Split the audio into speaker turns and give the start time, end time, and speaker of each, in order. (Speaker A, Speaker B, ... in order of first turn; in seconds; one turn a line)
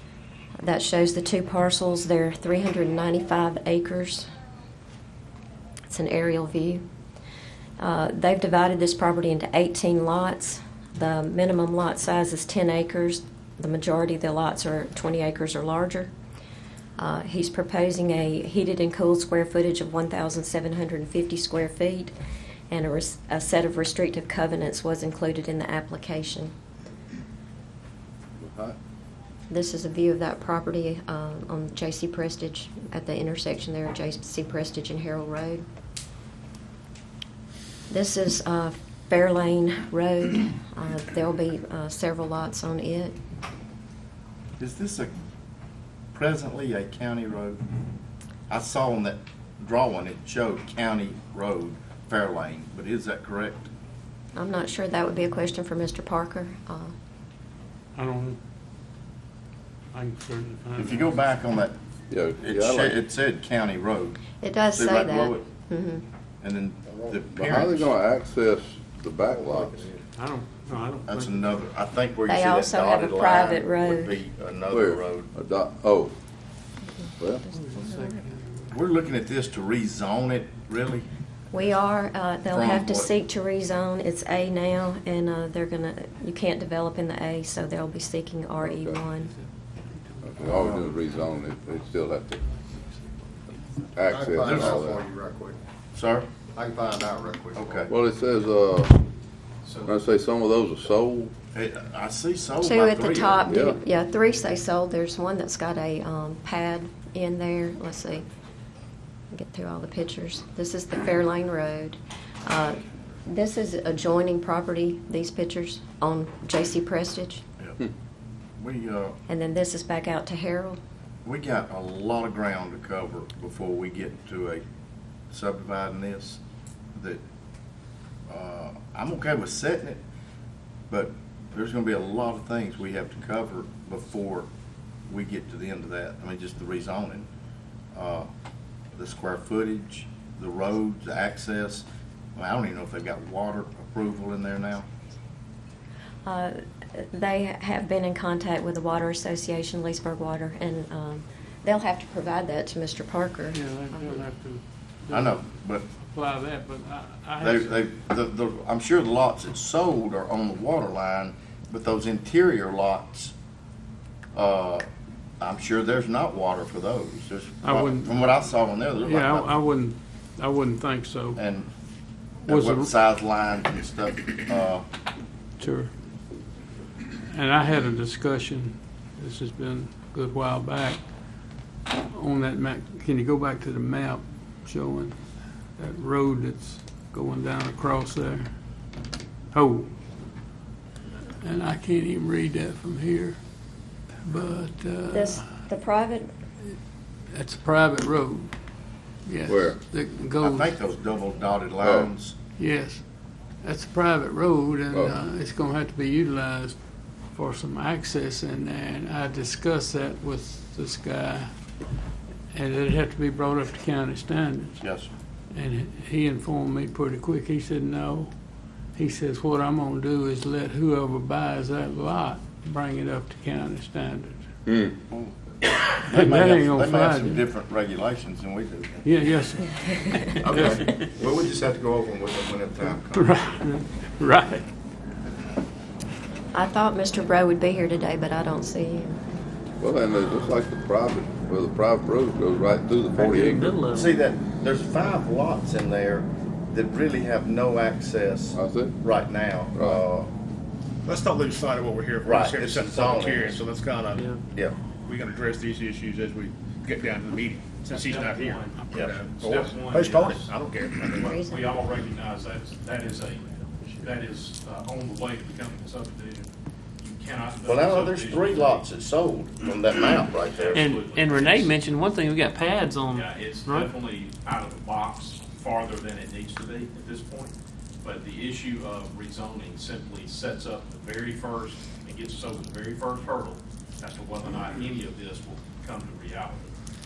Speaker A: 0.6-4.3
Speaker A: 5.9-6.8
Speaker A: 7.8-16.1
Speaker A: 17.0-22.1
Speaker A: 22.7-26.5
Speaker B: 28.4-28.8
Speaker A: 29.5-35.6
Speaker A: 37.9-43.2
Speaker C: 44.6-45.1
Speaker C: 46.1-47.6
Speaker C: 48.5-53.7
Speaker A: 54.3-56.9
Speaker D: 58.0-58.4
Speaker D: 59.9-61.2
Speaker C: 60.8-61.8
Speaker B: 62.1-63.0
Speaker C: 62.4-64.2
Speaker A: 64.4-66.0
Speaker C: 64.7-65.4
Speaker C: 66.4-67.9
Speaker E: 66.9-67.2
Speaker B: 67.3-69.9
Speaker E: 69.5-69.9
Speaker D: 70.2-71.5
Speaker C: 71.0-75.3
Speaker A: 72.3-74.2
Speaker B: 74.7-76.1
Speaker B: 77.2-77.4
Speaker F: 77.5-78.5
Speaker A: 77.5-78.2
Speaker C: 78.7-81.1
Speaker A: 81.5-89.3
Speaker C: 82.5-83.1
Speaker B: 88.6-89.0
Speaker D: 89.3-90.9
Speaker B: 90.2-92.4
Speaker D: 92.5-93.2
Speaker B: 93.9-95.0
Speaker E: 94.1-95.6
Speaker C: 94.4-94.9
Speaker C: 95.9-96.3
Speaker E: 96.5-97.8
Speaker C: 97.5-97.9
Speaker B: 97.9-99.0
Speaker G: 99.6-99.9
Speaker B: 99.8-101.3
Speaker C: 101.5-103.5
Speaker A: 102.6-108.2
Speaker B: 103.5-103.8
Speaker A: 109.3-117.4
Speaker C: 118.6-119.2
Speaker A: 119.3-120.8
Speaker C: 121.2-124.6
Speaker C: 125.3-126.4
Speaker C: 126.9-127.2
Speaker C: 128.3-130.0
Speaker C: 130.9-134.5
Speaker C: 135.1-137.3
Speaker C: 137.9-138.3
Speaker C: 138.9-144.9
Speaker A: 146.2-154.2
Speaker D: 153.5-157.8
Speaker C: 155.1-155.8
Speaker C: 157.4-163.3
Speaker C: 164.3-164.8
Speaker C: 165.4-169.5
Speaker D: 167.6-168.3
Speaker D: 168.9-171.4
Speaker C: 171.3-171.7
Speaker C: 172.5-174.8
Speaker D: 172.5-172.9
Speaker D: 175.6-175.9
Speaker D: 177.3-181.0
Speaker D: 182.1-185.2
Speaker D: 185.8-188.5
Speaker D: 189.5-189.9
Speaker D: 191.4-193.4
Speaker D: 194.2-195.5
Speaker A: 195.1-196.3
Speaker D: 197.3-198.5
Speaker D: 199.2-200.8
Speaker B: 199.5-199.8
Speaker C: 200.4-202.3
Speaker B: 201.8-202.1
Speaker D: 202.6-203.1
Speaker D: 203.6-206.8
Speaker B: 204.9-205.2
Speaker D: 207.3-211.5
Speaker D: 212.5-214.8
Speaker C: 214.8-215.1
Speaker D: 215.5-218.3
Speaker D: 218.9-224.4
Speaker B: 224.7-224.9
Speaker C: 225.1-225.3
Speaker D: 225.7-227.4
Speaker C: 226.0-229.1
Speaker D: 229.0-230.9
Speaker C: 230.4-233.5
Speaker D: 233.1-234.7
Speaker A: 236.5-239.2
Speaker B: 239.8-243.8
Speaker F: 243.2-244.1
Speaker C: 243.9-250.3
Speaker B: 248.5-249.0
Speaker B: 249.7-250.0
Speaker H: 251.1-254.2
Speaker E: 251.1-251.4
Speaker C: 252.2-253.6
Speaker E: 253.1-254.2
Speaker F: 254.1-254.4
Speaker H: 255.0-261.1
Speaker G: 257.9-266.5
Speaker C: 258.9-259.2
Speaker A: 261.1-261.7
Speaker G: 267.0-268.9
Speaker C: 267.6-270.7
Speaker G: 270.5-271.8
Speaker F: 270.7-273.9
Speaker G: 273.1-286.7